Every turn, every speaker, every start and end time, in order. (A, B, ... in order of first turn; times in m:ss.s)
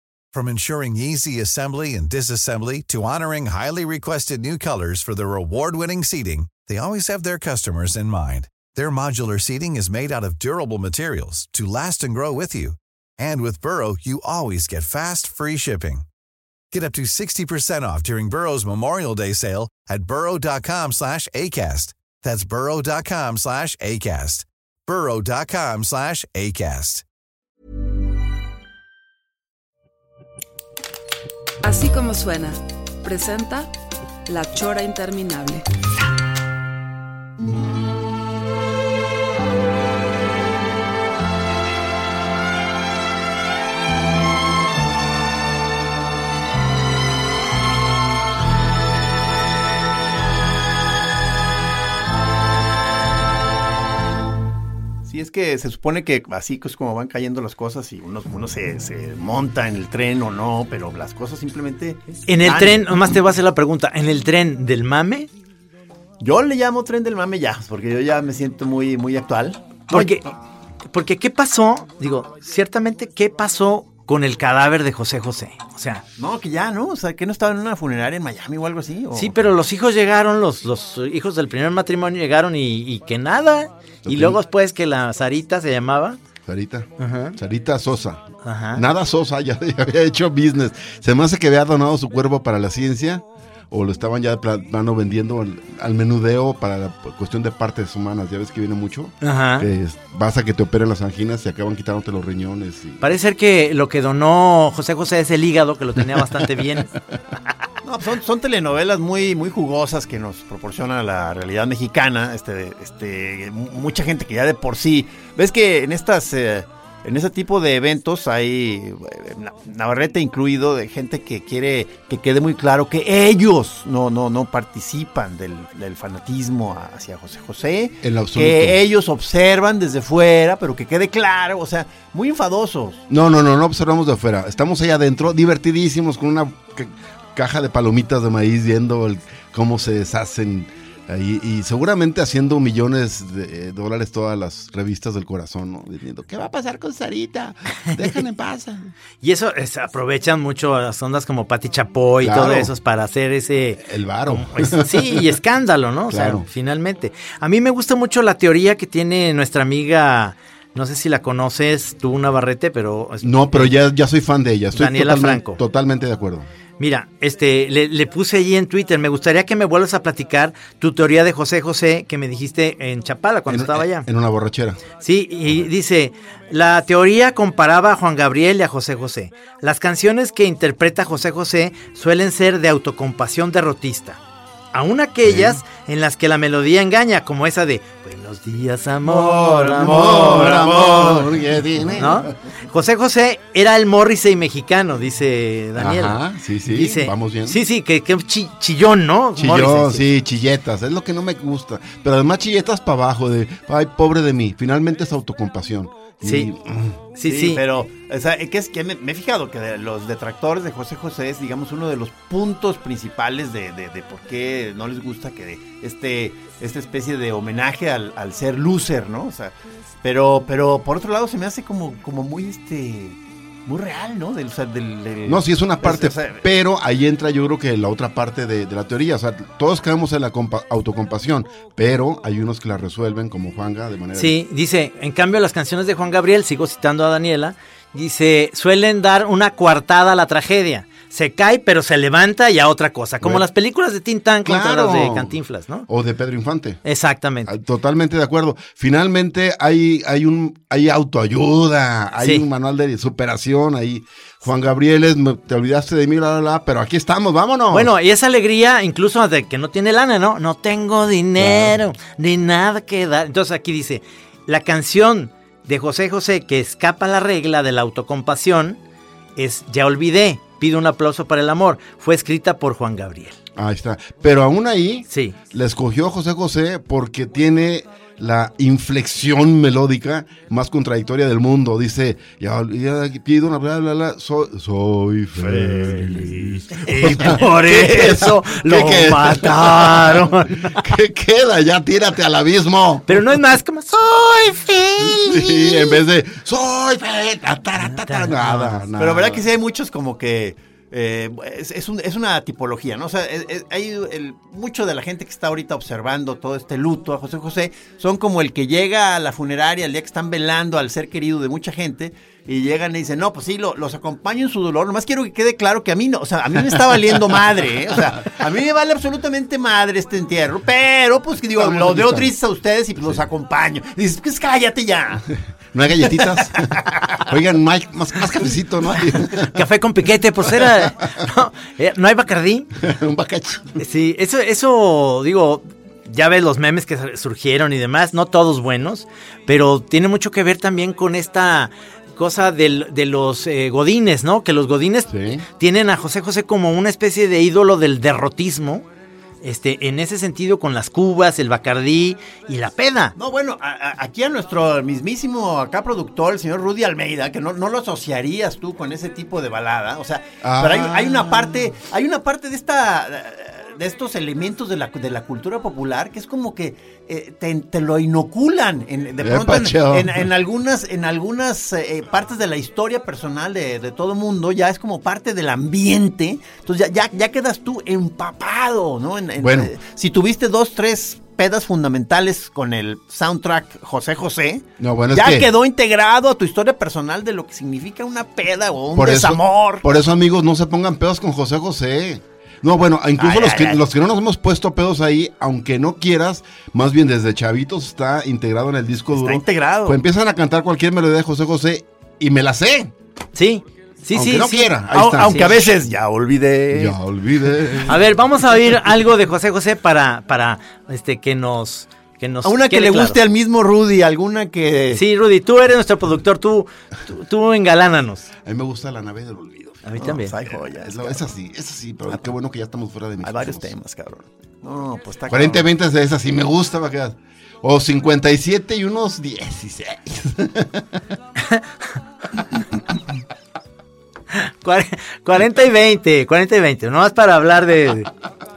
0:00.3-0:16.1 A
0:16.7-0:27.0 A
0:31.6-0:33.7 B
0:34.3-0:35.7 B
0:55.0-1:03.2 C
1:02.3-1:05.3 D
1:06.2-1:10.2 C
1:09.9-1:10.3 D
1:10.9-1:16.0 D
1:16.2-1:19.4 C
1:19.1-1:26.2 D
1:24.0-1:24.4 E
1:26.4-1:43.0 E
1:27.0-1:27.4 D
1:28.4-1:28.8 D
1:39.2-1:39.7 D
1:43.0-1:46.9 D
1:46.0-1:47.2 E
1:47.8-2:13.0 C
2:08.0-2:08.8 E
2:13.1-2:28.9 E
2:29.2-2:43.8 D
2:32.2-2:32.7 E
2:33.8-2:35.4 E
2:36.1-2:36.5 E
2:43.2-2:46.5 E
2:44.7-2:45.6 D
2:46.8-2:54.1 D
2:53.5-2:54.8 E
2:55.0-3:04.2 D
3:04.7-3:11.3 D
3:05.2-3:05.6 E
3:09.0-3:12.3 E
3:12.0-3:20.0 D
3:15.8-3:17.6 E
3:19.4-3:27.0 E
3:26.2-3:26.5 D
3:27.2-3:27.6 D
3:27.2-3:46.4 C
3:45.3-3:54.4 E
3:54.1-4:05.9 D
4:03.2-4:03.5 E
4:04.4-4:05.4 E
4:05.9-4:06.8 E
4:06.8-4:07.5 D
4:07.5-4:17.9 E
4:17.7-4:28.8 D
4:21.4-4:21.8 E
4:29.4-4:33.4 D
4:33.6-4:53.4 E
4:35.1-4:35.4 D
4:45.4-4:46.7 C
4:46.8-4:50.8 D
4:53.1-4:56.0 D
4:55.1-4:59.5 E
4:57.8-4:58.8 D
4:59.0-5:25.2 C
5:17.0-5:17.4 E
5:21.6-5:22.3 E
5:25.7-5:29.6 E
5:26.5-5:27.2 C
5:29.5-5:32.7 D
5:30.5-5:30.8 E
5:32.8-5:33.8 E
5:33.8-5:48.8 D
5:45.1-5:45.5 E
5:49.4-5:53.2 D
5:53.2-6:29.9 C
6:00.4-6:01.6 E
6:09.2-6:10.3 E
6:19.4-6:19.7 E
6:24.8-6:25.5 E
6:28.9-6:42.9 E
6:33.2-6:33.8 C
6:39.1-6:40.0 C
6:43.4-6:45.5 D
6:44.1-6:45.8 E
6:44.9-6:47.0 C
6:46.7-6:48.0 E
6:47.9-6:53.2 D
6:52.4-6:55.0 C
6:54.9-6:58.3 D
6:58.4-6:59.9 E
6:59.8-7:00.3 D
7:00.0-7:01.2 C
7:00.6-7:03.7 E
7:03.2-7:05.7 C
7:05.3-7:11.0 E
7:14.3-7:18.1 D